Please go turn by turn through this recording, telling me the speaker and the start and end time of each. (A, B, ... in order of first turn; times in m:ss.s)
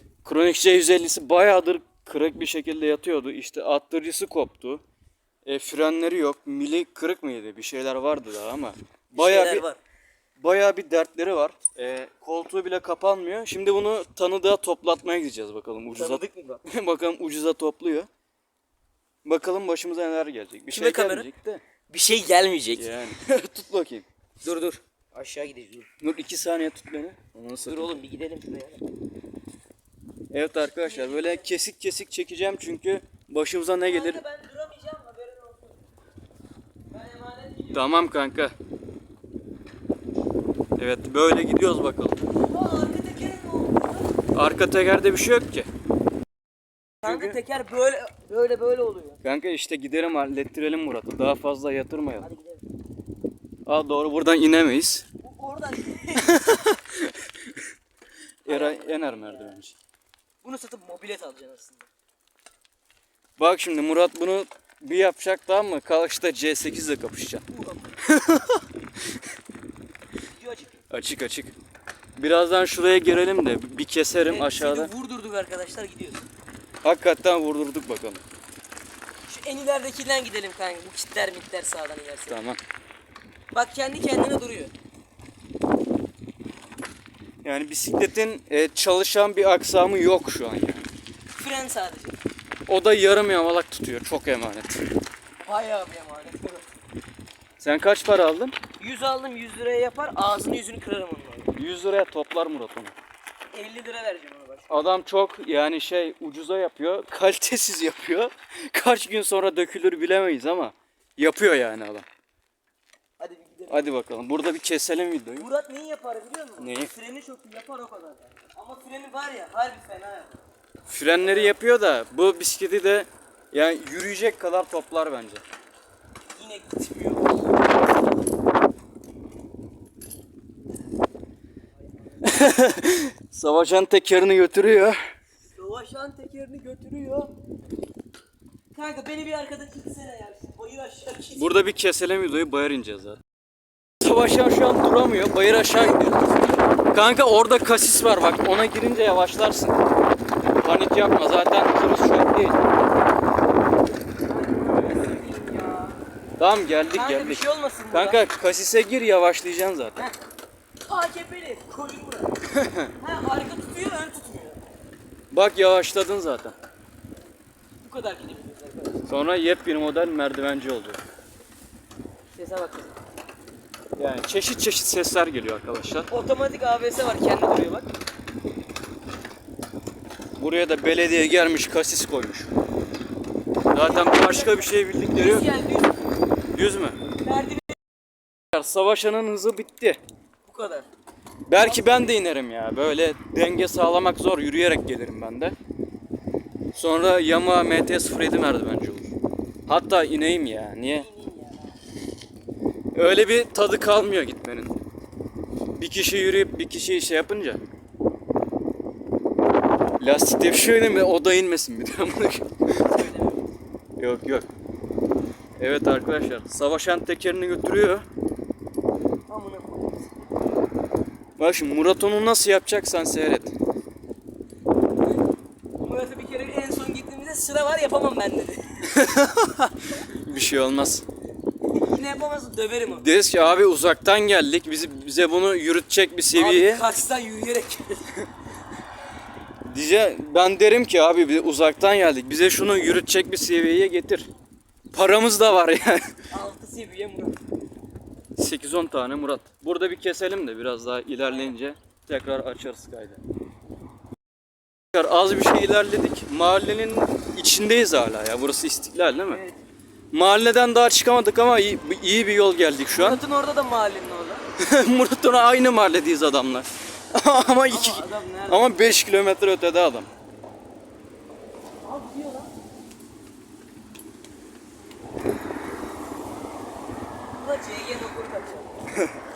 0:00.2-0:04.8 A
0:05.4-0:09.6 A
0:09.1-0:09.8 B
0:10.4-0:18.1 A
0:15.9-0:16.6 B
0:19.2-0:21.6 A
0:20.7-0:21.3 B
0:21.9-0:22.9 B
0:22.8-0:24.1 A
0:24.4-0:25.9 B
0:26.0-0:28.0 A
0:27.6-0:28.8 B
0:30.3-0:34.2 A
0:30.6-0:31.5 B
0:33.8-0:35.8 B
0:36.9-0:37.9 B
0:37.7-0:38.5 A
0:40.8-0:42.2 A
0:42.4-0:44.1 B
0:44.3-0:45.7 A
0:47.0-0:49.2 B
0:47.0-0:47.4 A
0:49.2-0:52.3 A
0:52.2-0:52.6 B
0:53.7-0:55.1 A
0:55.2-0:56.6 B
0:56.2-0:57.6 A
0:58.4-0:59.8 A
0:58.5-0:59.5 B
1:00.4-1:01.9 B
1:03.4-1:07.5 A
1:07.5-1:08.0 B
1:08.1-1:08.6 A
1:10.4-1:10.8 B
1:10.9-1:11.6 A
1:12.2-1:14.9 A
1:14.2-1:16.3 B
1:16.8-1:18.2 A
1:19.3-1:22.4 B
1:22.3-1:22.6 A
1:23.5-1:24.7 B
1:27.4-1:30.9 A
1:31.4-1:32.2 B
1:32.7-1:34.8 A
1:35.4-1:36.7 B
1:37.6-1:38.6 A
1:38.8-1:41.5 B
1:41.6-1:43.0 A
1:43.5-1:44.8 B
1:44.7-1:52.1 A
1:53.2-1:53.9 B
1:53.7-1:55.5 A
1:55.4-2:00.4 B
1:56.6-1:56.9 A
2:00.9-2:05.4 A
2:01.2-2:01.6 B
2:06.3-2:07.4 B
2:12.2-2:15.0 A
2:15.6-2:17.3 B
2:18.8-2:21.5 B
2:21.4-2:23.2 A
2:24.0-2:26.3 A
2:26.9-2:29.8 A
2:30.6-2:32.6 A
2:34.3-2:36.0 B
2:36.4-2:40.0 A
2:36.9-2:38.2 B
2:40.9-2:42.3 B
2:42.5-2:42.9 A
2:43.0-2:44.6 B
2:45.3-2:46.6 A
2:47.8-2:49.0 B
2:49.1-2:51.0 A
2:52.3-2:53.0 B
2:54.0-2:56.1 A
2:56.1-2:57.9 B
3:00.4-3:02.5 A
3:03.7-3:05.5 A
3:03.7-3:06.0 B
3:06.5-3:07.0 A
3:07.2-3:07.8 B
3:08.5-3:10.0 A
3:10.4-3:10.9 B
3:11.5-3:15.6 A
3:11.6-3:12.2 B
3:16.7-3:19.1 A
3:19.7-3:21.1 A
3:21.0-3:21.8 B
3:22.9-3:24.8 A
3:25.8-3:27.6 A
3:30.0-3:32.5 A
3:32.9-3:33.4 B
3:34.0-3:34.5 A
3:35.6-3:38.1 A
3:39.3-3:40.2 B
3:41.4-3:43.6 A
3:45.8-3:48.9 B
3:48.8-3:51.0 A
3:51.7-3:53.1 B
3:52.8-3:56.9 A
3:56.3-3:58.2 B
3:59.7-4:04.3 A
4:04.9-4:06.1 A
4:06.3-4:07.4 B
4:08.4-4:13.2 A
4:14.9-4:19.4 A
4:19.3-4:19.6 B
4:20.1-4:23.2 A
4:22.9-4:24.4 B
4:24.6-4:30.1 A
4:27.7-4:28.6 B
4:31.8-4:32.5 B
4:37.4-4:38.7 B